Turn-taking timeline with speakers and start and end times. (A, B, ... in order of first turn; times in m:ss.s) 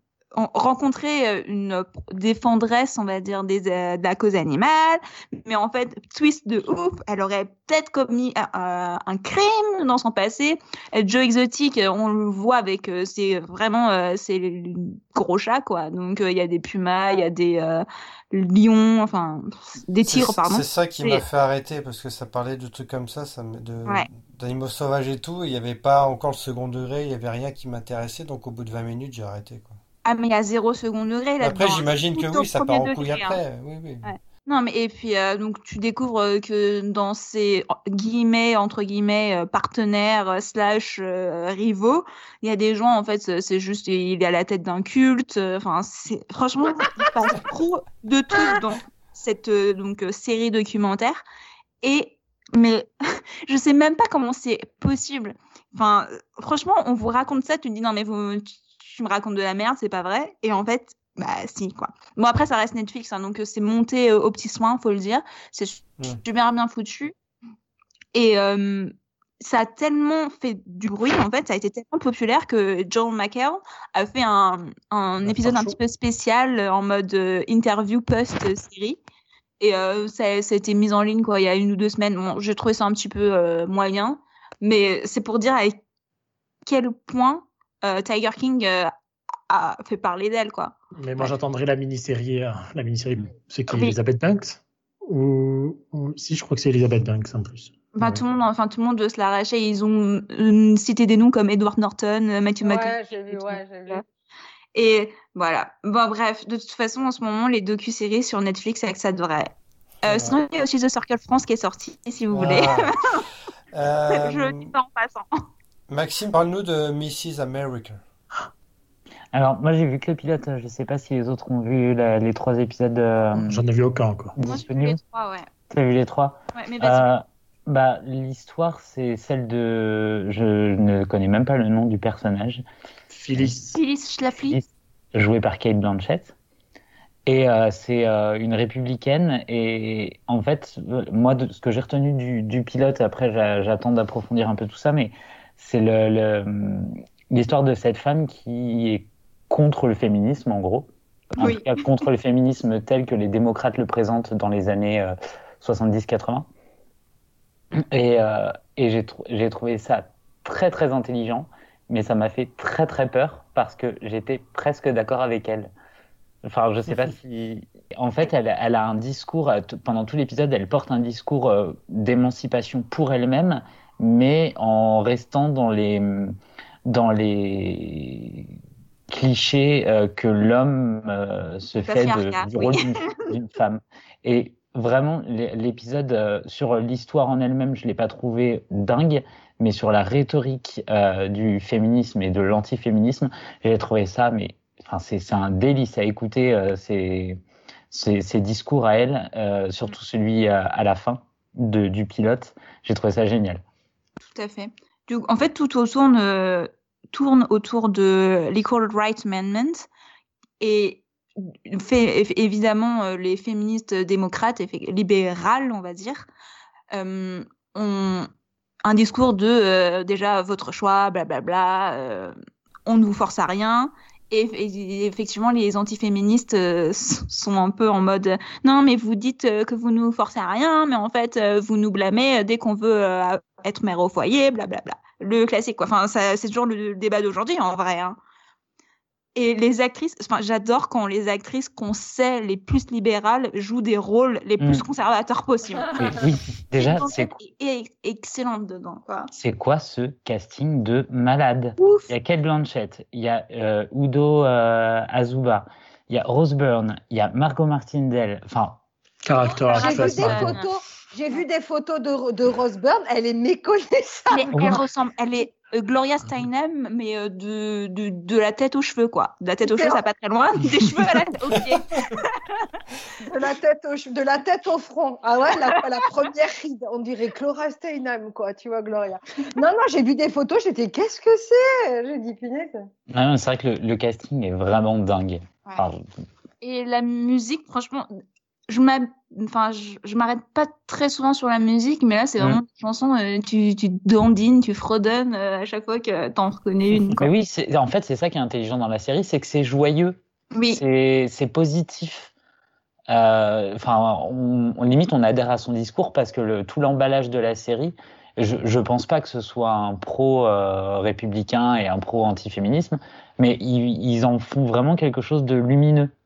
0:00.4-0:21.2 A
0:20.0-0:29.8 B
0:30.0-0:33.4 A
0:31.4-0:34.1 B
0:34.0-0:51.2 A
0:51.8-0:52.9 A
0:53.4-1:07.1 A
1:08.1-1:19.0 A
1:15.2-1:15.8 B
1:19.6-1:25.8 A
1:26.6-1:28.9 A
1:29.5-1:31.4 A
1:31.0-1:38.2 C
1:33.7-1:34.0 A
1:38.0-1:44.0 A
1:42.6-1:44.0 D
1:44.8-1:49.5 A
1:50.0-1:50.4 B
1:50.0-1:53.2 A
1:52.3-1:53.0 B
1:53.7-1:54.7 B
1:54.1-1:55.3 A
1:55.9-1:58.0 B
1:59.3-2:03.6 E
2:03.4-2:04.4 C
2:04.4-2:05.0 E
2:04.4-2:05.5 A
2:05.7-2:12.6 E
2:06.6-2:07.1 A
2:13.1-2:13.8 C
2:13.8-2:14.6 A
2:14.4-2:16.3 E
2:17.3-2:36.5 E
2:31.4-2:31.8 A
2:37.8-2:45.7 E
2:46.4-2:58.5 E
2:59.1-3:23.6 E
3:01.9-3:03.1 A
3:24.2-3:29.9 A
3:30.6-3:36.3 A
3:36.9-3:38.3 A
3:38.8-3:42.4 A
3:42.9-3:58.2 A
3:59.4-4:06.1 A
4:06.0-4:07.3 E
4:06.7-4:09.3 A
4:09.3-4:18.8 E
4:11.8-4:12.1 A
4:19.2-4:20.6 C
4:19.5-4:20.7 A
4:19.7-4:24.8 D
4:24.3-4:32.4 A
4:29.6-4:30.0 D
4:33.2-4:42.9 D
4:43.1-4:46.0 E
4:46.6-4:48.1 A
4:48.7-4:57.3 A
4:57.2-5:00.2 E
5:00.5-5:00.8 A
5:00.7-5:02.3 E
5:03.1-5:16.1 E